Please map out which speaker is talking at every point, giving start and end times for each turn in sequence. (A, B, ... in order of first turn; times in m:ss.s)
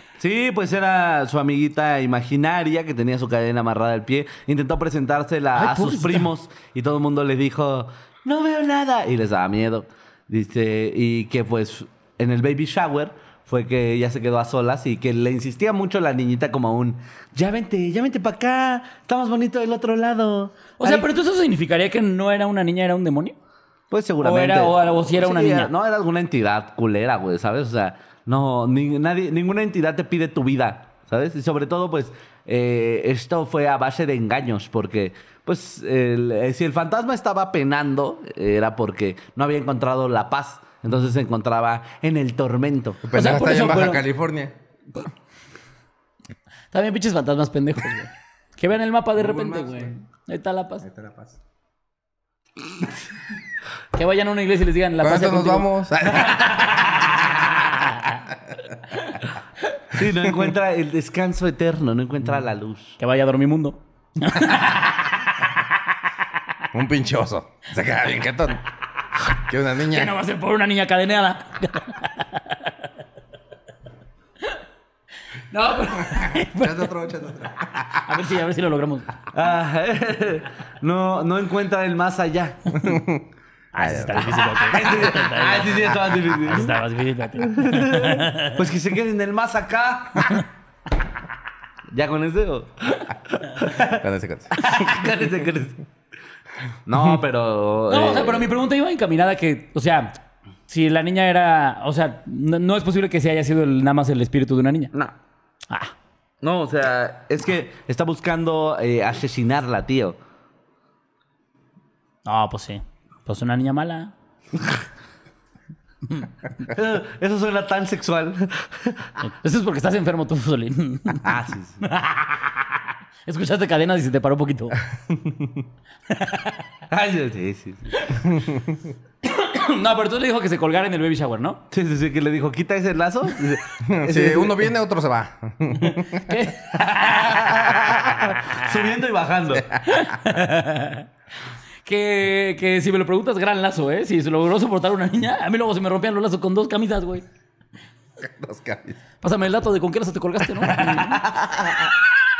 0:00.2-0:21.0 A
0:05.6-0:06.2 B
0:20.8-0:23.4 B
0:23.9-0:43.0 A
0:24.2-0:25.7 B
0:43.0-0:44.5 C
0:43.1-0:44.0 B
0:46.7-0:50.8 B
0:49.2-0:49.9 C
0:50.8-0:51.4 C
0:53.9-0:55.7 B
0:55.0-0:56.8 C
0:56.3-0:56.9 B
0:57.4-0:58.2 B
0:59.9-1:03.0 A
1:03.0-1:05.7 B
1:06.7-1:08.6 C
1:09.3-1:10.2 C
1:09.9-1:12.7 B
1:15.5-1:16.9 B
1:16.0-1:18.1 C
1:18.0-1:19.2 B
1:19.3-1:22.7 A
1:22.8-1:24.5 C
1:23.7-1:28.6 B
1:24.6-1:26.7 A
1:27.4-1:30.4 A
1:31.9-1:34.0 A
1:33.8-1:34.6 C
1:34.6-1:35.8 A
1:34.6-1:35.0 B
1:36.8-1:38.5 A
1:37.9-1:40.1 B
1:40.7-1:44.9 B
1:46.4-1:50.2 A
1:52.2-1:54.1 B
1:56.7-1:59.1 A
1:59.2-2:02.7 B
2:01.2-2:01.8 A
2:03.2-2:04.8 B
2:05.1-2:05.6 C
2:06.1-2:06.6 B
2:06.9-2:08.2 A
2:07.9-2:08.2 B
2:08.3-2:08.8 C
2:09.2-2:11.6 B
2:11.7-2:14.7 A
2:13.8-2:16.4 C
2:15.9-2:18.7 B
2:16.8-2:19.7 A
2:19.7-2:20.0 C
2:19.8-2:21.1 B
2:21.8-2:27.2 B
2:28.2-2:29.0 C
2:29.2-2:31.2 B
2:30.6-2:31.9 A